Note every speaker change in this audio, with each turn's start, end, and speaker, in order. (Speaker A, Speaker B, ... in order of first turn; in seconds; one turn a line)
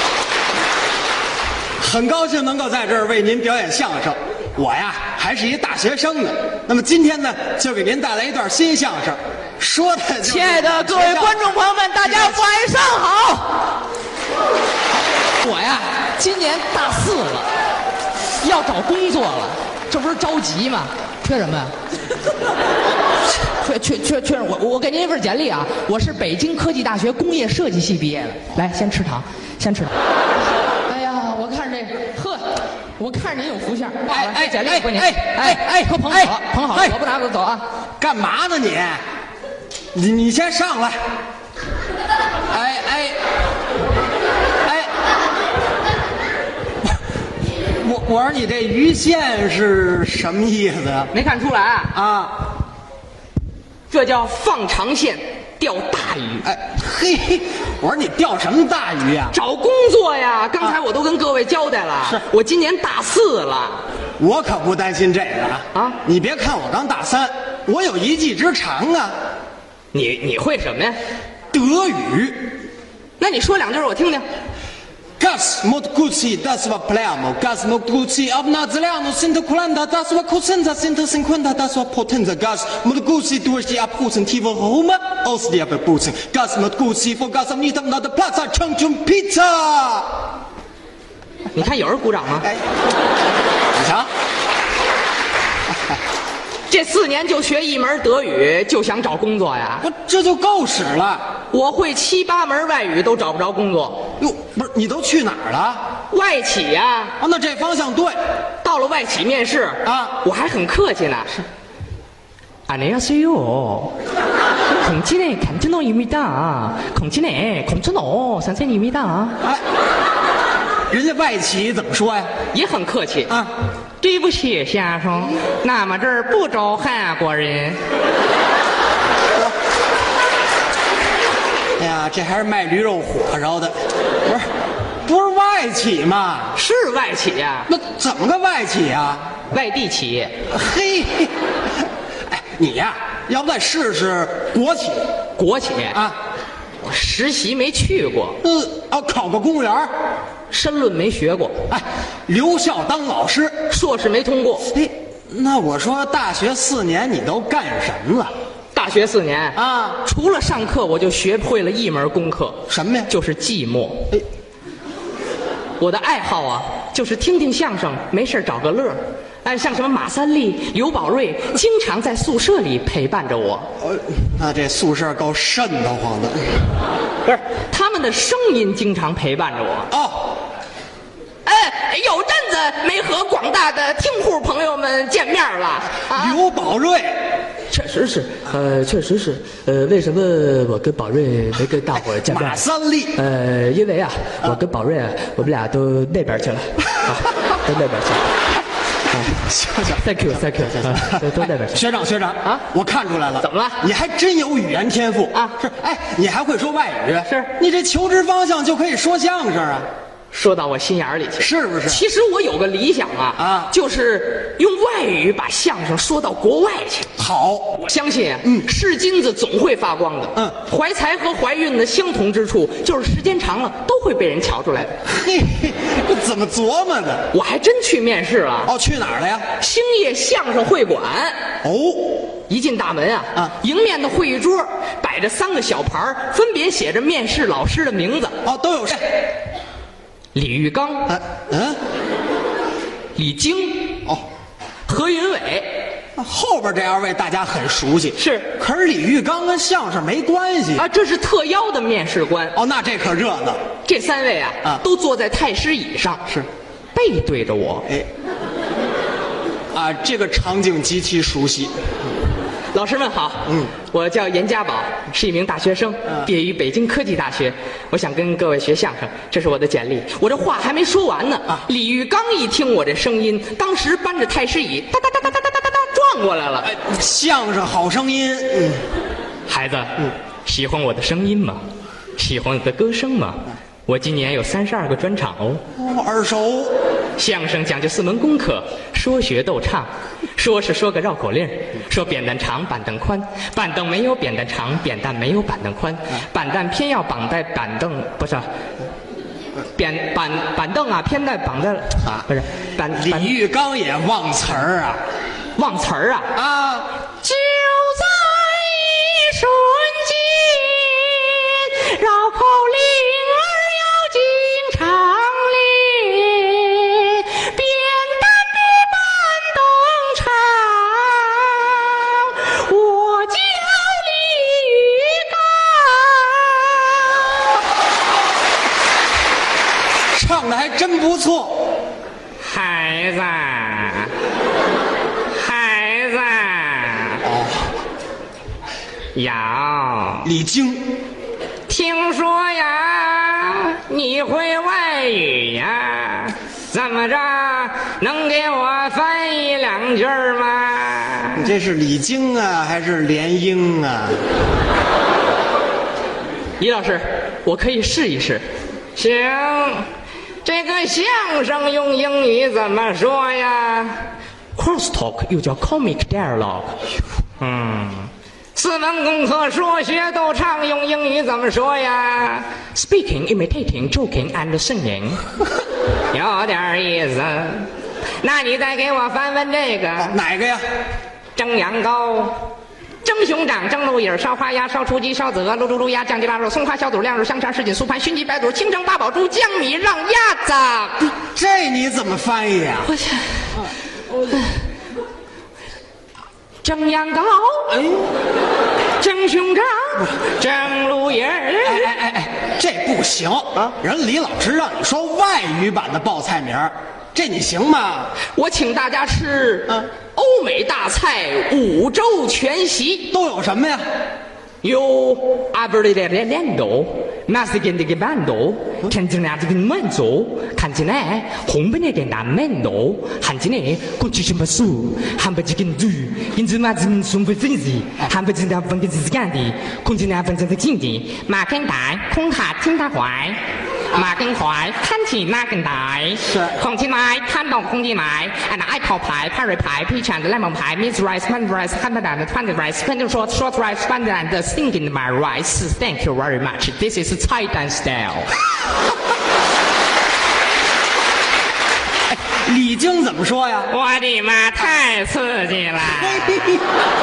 Speaker A: 1.8-11.5
Speaker B: 10.2-13.7
Speaker B: 15.4-17.5
Speaker B: 18.4-21.7
Speaker B: 23.3-29.9
Speaker B: 30.9-37.6
Speaker A: 34.0-37.0
Speaker A: 38.0-39.0
Speaker A: 39.9-41.0
Speaker A: 42.5-43.2
Speaker A: 47.8-51.1
Speaker B: 51.1-51.9
Speaker A: 51.9-52.4
Speaker B: 53.9-56.5
Speaker A: 56.4-59.4
Speaker B: 59.3-63.8
Speaker A: 64.2-69.1
Speaker B: 65.7-66.0
Speaker B: 69.9-71.0
Speaker A: 71.5-72.5
Speaker B: 73.2-74.3
Speaker A: 75.2-90.1
Speaker B: 91.5-92.5
Speaker A: 93.7-94.1
Speaker B: 96.7-99.8
Speaker A: 99.8-101.2
Speaker B: 101.5-104.1
Speaker A: 104.2-105.8
Speaker B: 106.1-107.2
Speaker A: 107.2-108.1
Speaker B: 108.6-111.4
Speaker A: 109.8-110.2
Speaker B: 112.7-114.0
Speaker B: 114.7-119.4
Speaker A: 120.9-122.3
Speaker B: 122.5-123.3
Speaker B: 124.0-127.8
Speaker A: 131.8-134.5
Speaker A: 135.0-136.6
Speaker B: 136.5-137.7
Speaker A: 137.7-139.3
Speaker B: 139.5-140.3
Speaker A: 140.5-141.3
Speaker A: 142.3-145.0
Speaker B: 145.4-146.0
Speaker A: 145.9-146.2
Speaker B: 146.8-148.4
Speaker A: 148.4-149.9
Speaker B: 150.5-151.6
Speaker A: 151.7-153.6
Speaker B: 153.7-154.7
Speaker A: 154.7-158.3
Speaker B: 158.7-164.1
Speaker A: 159.5-160.0
Speaker A: 162.7-163.1
Speaker B: 165.8-173.7
Speaker A: 173.8-176.6
Speaker B: 177.2-179.9
Speaker A: 179.9-180.3
Speaker B: 181.4-186.4
Speaker A: 186.1-187.1
Speaker B: 187.7-192.6
Speaker A: 192.2-193.2
Speaker B: 193.1-198.2
Speaker A: 199.1-200.0
Speaker B: 199.9-201.8
Speaker A: 200.8-209.9
Speaker B: 203.4-203.8
Speaker B: 207.3-207.5
Speaker B: 210.3-217.1
Speaker A: 211.4-212.0
Speaker A: 213.3-213.7
Speaker A: 217.2-217.8
Speaker B: 217.8-225.0
Speaker A: 225.0-227.3
Speaker B: 227.3-228.7
Speaker A: 228.6-229.5
Speaker B: 229.6-231.3
Speaker A: 231.6-232.2
Speaker B: 232.5-238.4
Speaker A: 238.4-239.1
Speaker B: 240.3-241.1
Speaker A: 241.1-241.8
Speaker B: 243.2-244.0
Speaker B: 244.8-245.8
Speaker A: 246.2-250.8
Speaker B: 248.2-248.5
Speaker B: 250.8-252.6
Speaker A: 252.5-253.6
Speaker B: 253.8-256.3
Speaker B: 256.9-257.9
Speaker A: 259.7-261.7
Speaker B: 262.7-276.7
Speaker A: 263.5-263.7
Speaker A: 276.6-278.8
Speaker B: 279.5-281.6
Speaker B: 282.2-285.6
Speaker A: 285.8-286.7
Speaker B: 287.2-298.5
Speaker B: 299.8-303.3
Speaker A: 302.9-305.0
Speaker B: 305.6-306.3
Speaker A: 306.3-306.9
Speaker B: 307.2-327.6
Speaker A: 330.1-331.6
Speaker B: 332.4-334.1
Speaker B: 335.3-337.2
Speaker A: 337.2-337.7
Speaker B: 339.1-340.3
Speaker A: 340.2-340.9
Speaker B: 341.7-351.5
Speaker A: 351.4-354.2
Speaker B: 356.6-359.9
Speaker B: 360.4-364.0
Speaker B: 364.6-366.8
Speaker B: 367.4-375.2
Speaker B: 376.1-377.7
Speaker B: 378.2-380.2
Speaker A: 380.0-380.6
Speaker B: 381.3-382.5
Speaker B: 383.0-391.1
Speaker A: 391.1-392.9
Speaker B: 392.9-393.5
Speaker B: 394.2-394.5
Speaker B: 396.6-397.8
Speaker A: 397.7-398.1
Speaker B: 399.0-401.9
Speaker A: 401.6-408.1
Speaker B: 408.3-413.1
Speaker A: 413.1-413.8
Speaker B: 414.6-433.4
Speaker B: 433.9-448.3
Speaker A: 436.3-436.6
Speaker A: 452.1-453.7
Speaker B: 453.7-456.6
Speaker A: 456.1-456.6